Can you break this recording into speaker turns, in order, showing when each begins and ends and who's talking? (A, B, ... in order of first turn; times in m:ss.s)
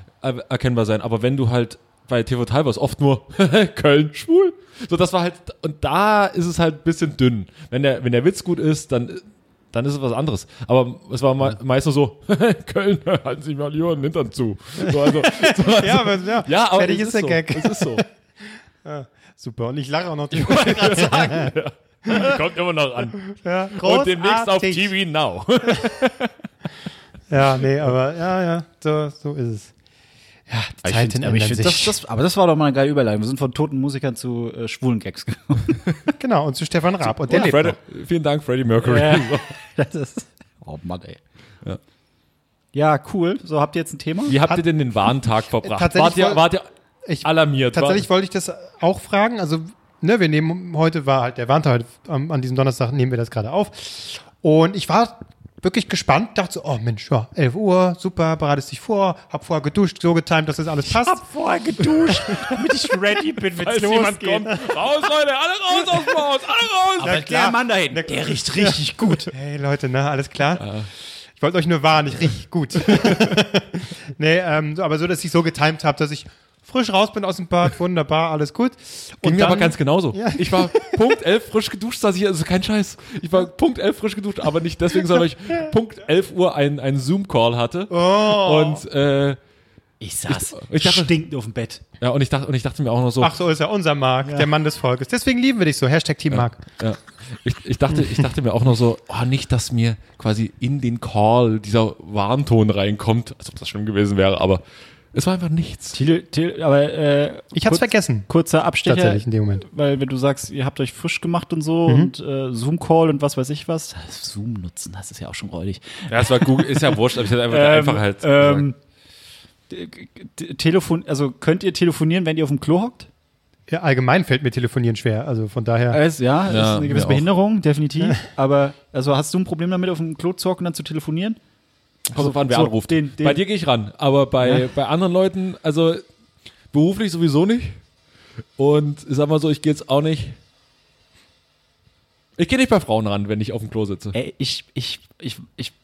0:00.2-0:18.0 A
0:14.9-0:18.1 B
0:18.8-0:21.5 B
0:20.3-0:23.2 A
0:20.8-0:21.4 C
0:22.1-0:22.4 B
0:23.3-0:24.9 B
0:23.8-0:26.3 A
0:27.3-0:29.7 B
0:30.5-0:32.0 B
0:30.8-0:35.8 C
0:36.2-0:37.8 B
0:37.2-0:39.5 A
0:38.8-0:41.2 C
0:42.7-0:44.4 C
0:44.3-0:46.7 A
0:45.6-0:46.5 B
0:47.1-1:01.2 B
0:47.2-0:48.1 A
1:00.9-1:04.5 C
1:03.6-1:07.2 A
1:07.0-1:09.3 C
1:07.0-1:10.8 B
1:10.6-1:10.9 A
1:11.4-1:21.0 B
1:12.8-1:13.4 A
1:19.2-1:29.4 A
1:27.9-1:28.8 B
1:30.0-1:31.8 C
1:30.3-1:31.1 A
1:32.0-1:33.3 A
1:33.2-1:36.6 B
1:34.2-1:34.5 C
1:36.3-1:46.0 A
1:45.9-1:58.8 C
1:47.5-1:48.3 B
1:48.8-1:49.7 B
1:56.1-1:58.7 A
1:59.7-2:03.1 C
2:03.7-2:06.0 B
2:05.9-2:11.4 C
2:06.5-2:07.3 A
2:12.1-2:16.0 A
2:12.1-2:13.4 C
2:14.4-2:14.7 C
2:16.7-2:17.8 A
2:18.6-2:20.4 A
2:22.4-2:24.2 A
2:24.1-2:25.7 C